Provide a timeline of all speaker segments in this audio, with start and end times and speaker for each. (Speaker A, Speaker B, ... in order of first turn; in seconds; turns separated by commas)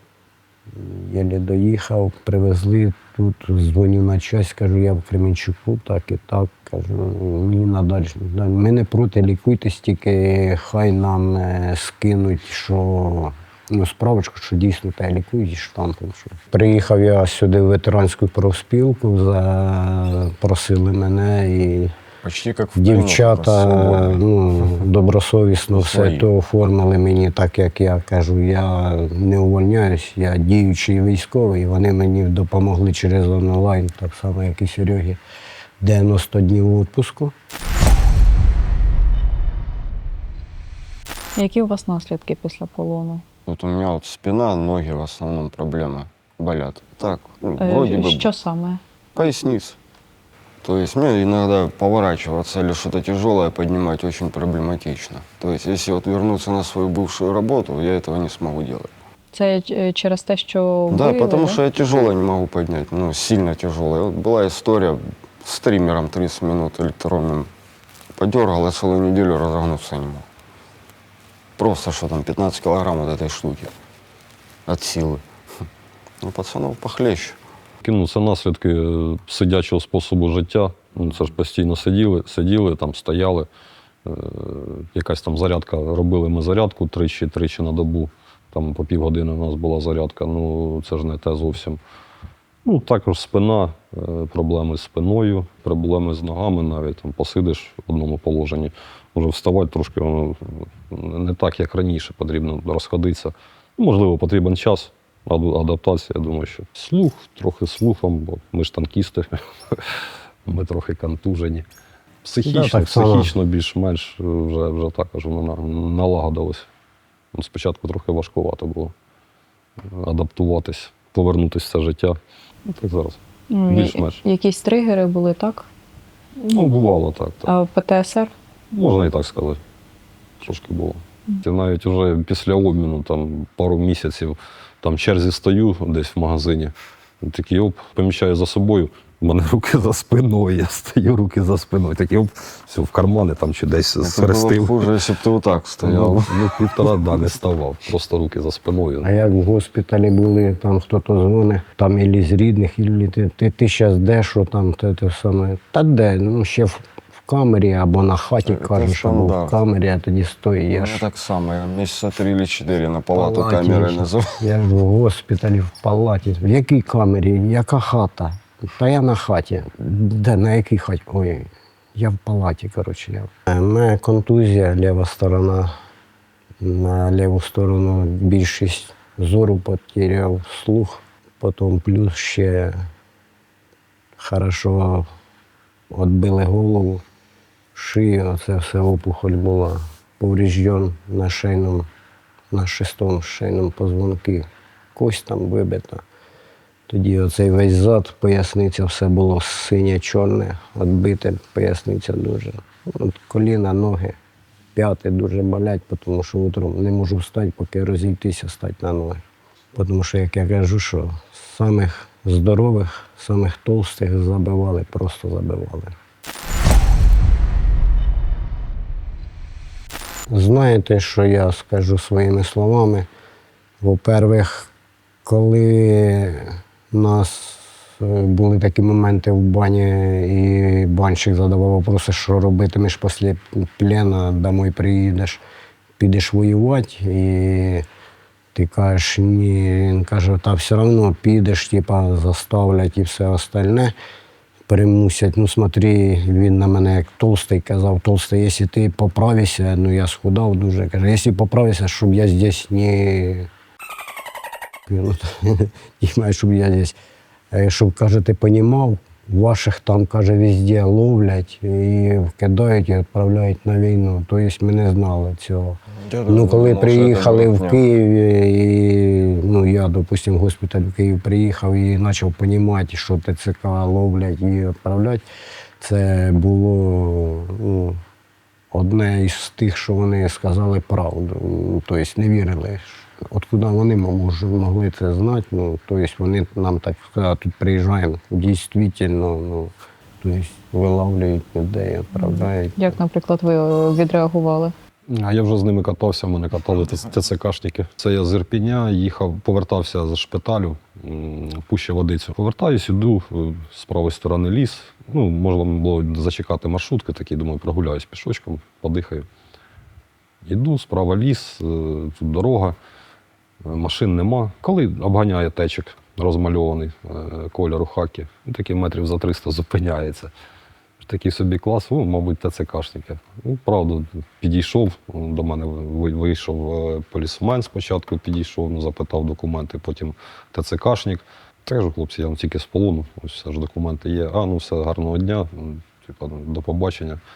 Speaker A: 0.7-21.9, Speaker B: 22.2-24.7, Speaker A: 22.7-35.2, Speaker B: 25.7-26.3, Speaker A: 35.8-37.3, Speaker C: 41.4-43.2, Speaker B: 43.5-48.3, Speaker C: 47.6-48.8, Speaker B: 49.1-49.8, Speaker B: 50.6-58.9, Speaker C: 59.3-61.6, Speaker B: 60.9-67.5, Speaker B: 68.2-70.2, Speaker B: 71.6-73.7, Speaker B: 74.7-75.2, Speaker B: 76.2-77.4, Speaker D: 77.8-83.5, Speaker D: 84.0-91.8, Speaker D: 92.6-111.7, Speaker D: 112.2-116.7, Speaker A: 112.4-113.3, Speaker D: 117.3-118.9, Speaker D: 119.8-124.2, Speaker C: 123.5-125.7, Speaker D: 126.5-127.5, Speaker C: 127.5-128.3, Speaker D: 128.7-129.6, Speaker D: 130.4-144.9, Speaker B: 144.0-146.3, Speaker D: 145.8-149.1, Speaker A: 149.0-161.0, Speaker B: 158.4-159.6, Speaker B: 160.7-164.3, Speaker A: 163.1-175.7, Speaker A: 176.6-182.9, Speaker A: 184.2-185.1, Speaker A: 185.9-187.0, Speaker A: 187.7-191.8, Speaker A: 192.5-196.0, Speaker A: 196.9-204.2, Speaker A: 204.7-209.2, Speaker A: 209.7-215.9, Speaker A: 220.3-223.1, Speaker A: 223.8-224.7, Speaker A: 225.2-235.4, Speaker A: 236.0-237.8, Speaker A: 238.5-243.9, Speaker A: 244.7-253.5, Speaker A: 254.9-256.9, Speaker A: 257.5-275.2, Speaker B: 266.0-267.8, Speaker A: 275.8-278.0, Speaker A: 278.7-293.0, Speaker C: 292.1-294.7, Speaker D: 295.1-309.3, Speaker D: 310.4-312.8, Speaker D: 313.6-320.3, Speaker D: 321.0-337.2